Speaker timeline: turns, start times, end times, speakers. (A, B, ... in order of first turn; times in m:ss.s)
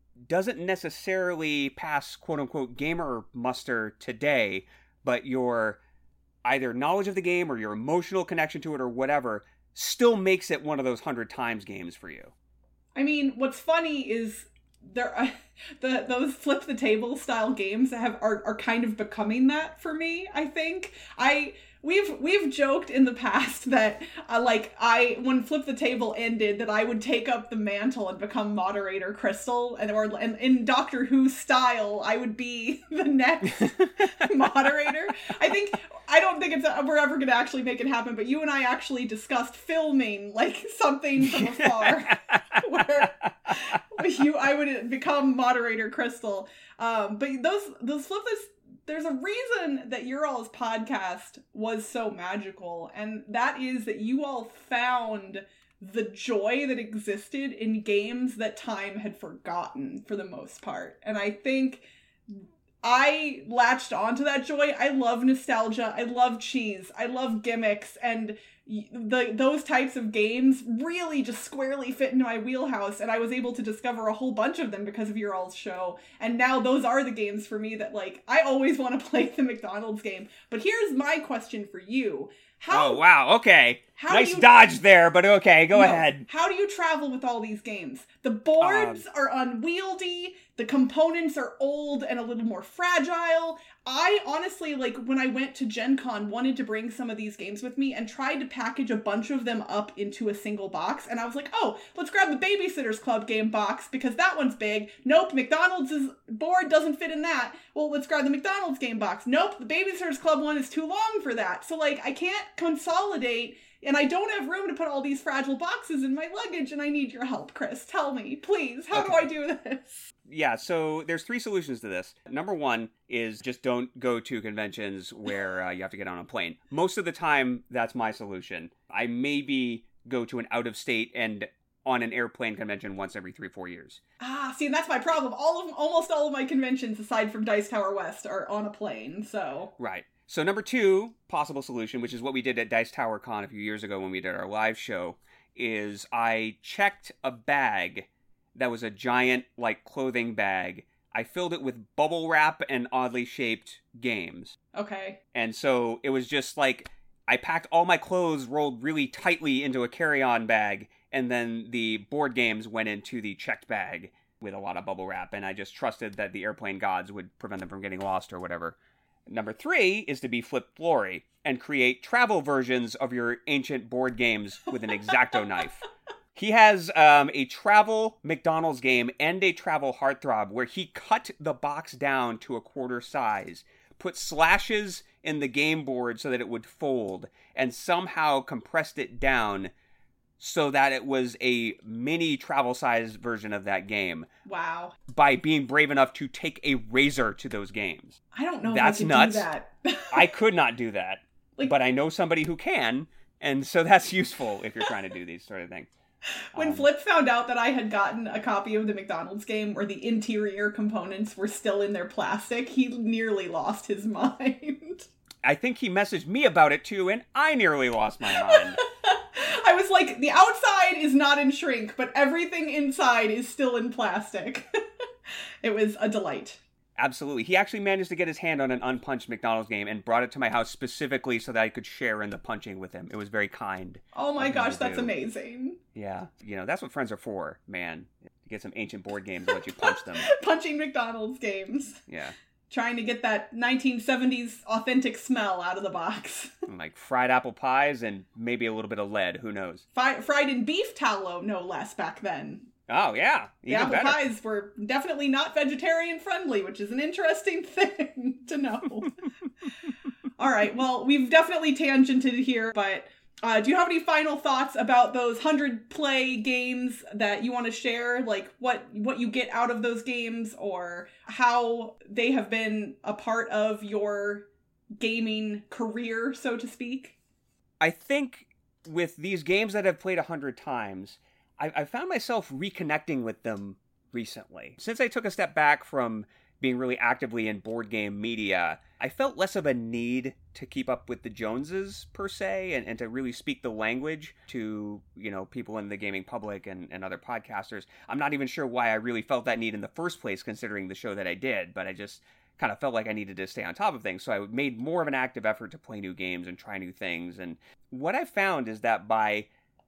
0:00.3-0:05.8 A
0:06.4-0:12.3 A
0:13.0-1:23.0 B
0:33.6-0:34.2 A
0:41.2-0:43.8 A
1:22.7-1:26.2 A
1:24.0-1:24.7 B
1:25.7-2:00.1 B
1:28.6-1:29.0 A
1:58.9-1:59.2 A
2:00.3-2:14.0 A
2:14.2-2:19.7 B
2:19.8-2:34.6 A
2:34.7-2:35.2 B
2:35.3-3:09.7 A
3:10.4-3:14.3 A
3:14.5-3:15.0 B
3:15.1-3:18.2 A
3:18.3-3:20.3 B
3:18.7-3:19.5 A
3:20.1-3:25.9 A
3:26.5-3:35.1 B
3:26.6-3:26.9 A
3:35.4-3:38.8 A
3:38.3-3:44.6 B
3:45.6-3:46.6 B
3:47.0-3:55.1 A
3:54.2-3:55.8 B
3:56.0-4:00.3 A
3:59.5-4:02.0 B
4:02.1-4:02.3 A
4:02.7-4:06.6 B
4:06.7-4:09.8 A
4:10.0-4:12.7 B
4:12.9-4:14.2 A
4:13.7-4:19.2 B
4:20.4-4:34.5 B
4:35.0-4:37.2 B
4:37.8-5:09.5 A